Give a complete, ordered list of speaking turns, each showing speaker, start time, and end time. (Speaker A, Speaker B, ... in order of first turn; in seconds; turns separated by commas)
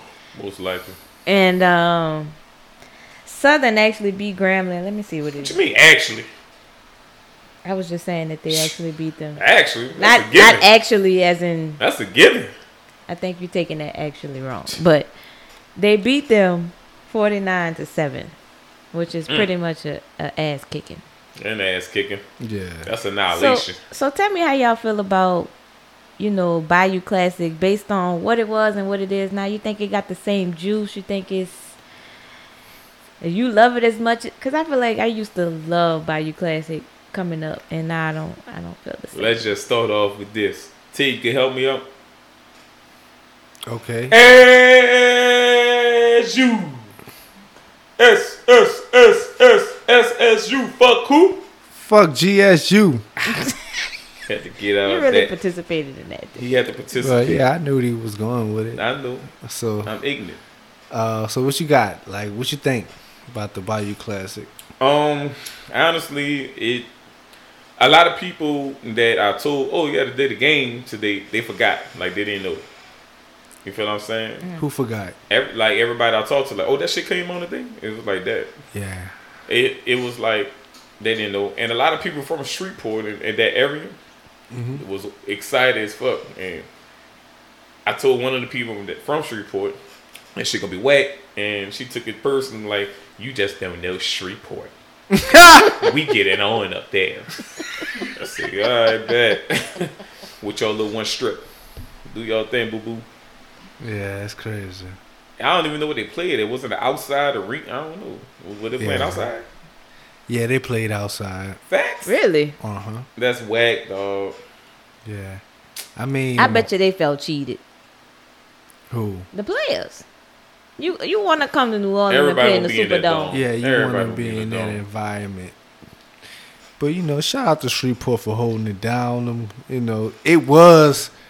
Speaker A: 0.3-1.0, Speaker B: 1.2-2.3, Speaker B: 3.2-5.6, Speaker A: 5.4-6.3, Speaker B: 7.6-9.4, Speaker A: 8.5-8.7, Speaker A: 9.3-10.6, Speaker B: 9.9-11.8, Speaker A: 11.8-12.5, Speaker B: 13.1-15.1, Speaker B: 15.8-18.3, Speaker B: 18.9-21.0, Speaker A: 21.4-22.2, Speaker C: 22.4-22.9, Speaker A: 22.8-23.8, Speaker B: 23.3-25.5, Speaker B: 26.2-31.8, Speaker B: 33.2-39.4, Speaker A: 39.1-41.9, Speaker C: 43.6-44.1, Speaker A: 44.1-46.9, Speaker A: 48.0-51.4, Speaker C: 51.8-53.1, Speaker A: 54.3-55.3, Speaker B: 54.8-56.4, Speaker A: 56.4-57.4, Speaker C: 57.0-58.8, Speaker A: 58.7-59.3, Speaker C: 59.3-59.9, Speaker A: 59.8-60.4, Speaker C: 60.9-64.5, Speaker A: 64.8-66.9, Speaker A: 67.8-72.7, Speaker A: 73.6-74.4, Speaker C: 74.6-75.2, Speaker A: 75.3-78.5, Speaker C: 78.7-79.2, Speaker A: 79.5-84.0, Speaker C: 84.5-84.8, Speaker A: 84.8-86.7, Speaker A: 87.8-89.8, Speaker A: 90.3-94.7, Speaker C: 95.1-96.0, Speaker A: 95.8-97.4, Speaker A: 98.1-101.5, Speaker A: 102.0-103.0, Speaker C: 103.8-105.0, Speaker A: 105.4-109.4, Speaker C: 108.8-109.3, Speaker C: 110.3-111.6, Speaker A: 111.7-112.1, Speaker B: 112.0-112.5, Speaker C: 112.6-113.1, Speaker A: 113.2-114.4, Speaker C: 115.0-115.4, Speaker C: 116.0-116.7, Speaker B: 116.4-117.6, Speaker C: 118.9-119.3, Speaker B: 119.3-120.0, Speaker B: 120.8-123.4, Speaker A: 122.1-124.8, Speaker C: 123.3-125.5, Speaker C: 126.8-131.1